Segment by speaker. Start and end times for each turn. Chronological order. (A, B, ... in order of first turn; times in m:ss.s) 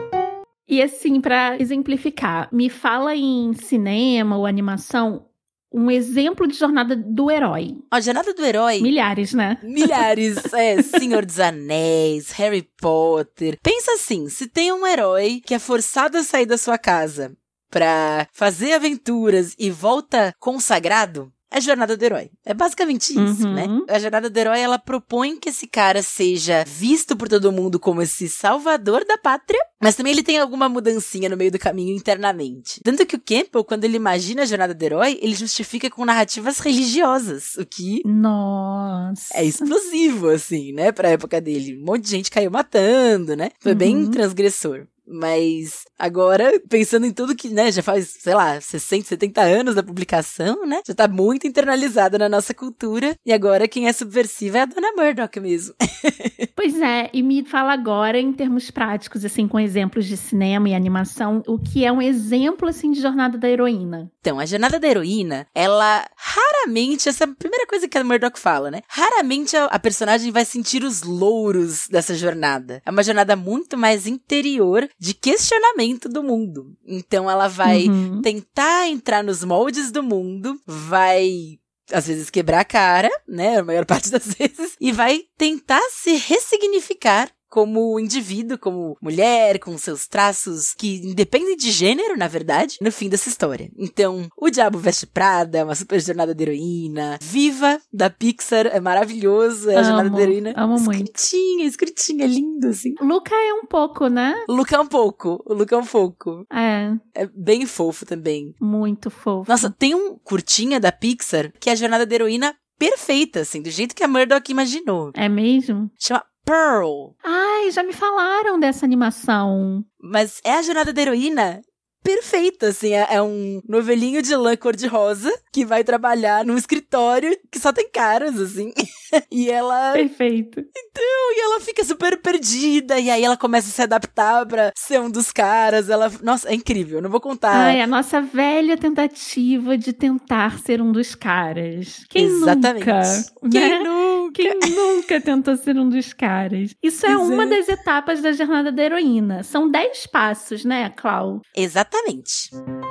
0:00.7-0:07.8 A
0:07.9-0:08.9 B
0:08.8-0:10.1 A
0:09.6-0:38.0 B
0:23.2-0:23.9 A
0:38.0-0:39.7 A
0:39.3-0:56.4 B
0:43.7-0:44.2 A
0:56.6-1:04.1 A
1:04.2-1:43.0 B
1:17.6-1:18.3 A
1:39.7-1:41.1 A
1:43.0-1:44.4 A
1:44.5-1:46.4 B
1:46.5-1:47.0 A
1:47.1-1:48.6 B
1:48.6-1:49.7 A
1:49.5-1:55.1 B
1:55.1-1:55.9 A
1:56.0-1:57.1 B
1:57.2-1:59.8 A
2:00.0-2:10.0 B
2:09.9-2:10.6 A
2:10.7-2:17.8 B
2:17.5-2:31.4 A
2:22.2-2:24.7 B
2:27.1-2:27.6 B
2:31.5-2:32.5 B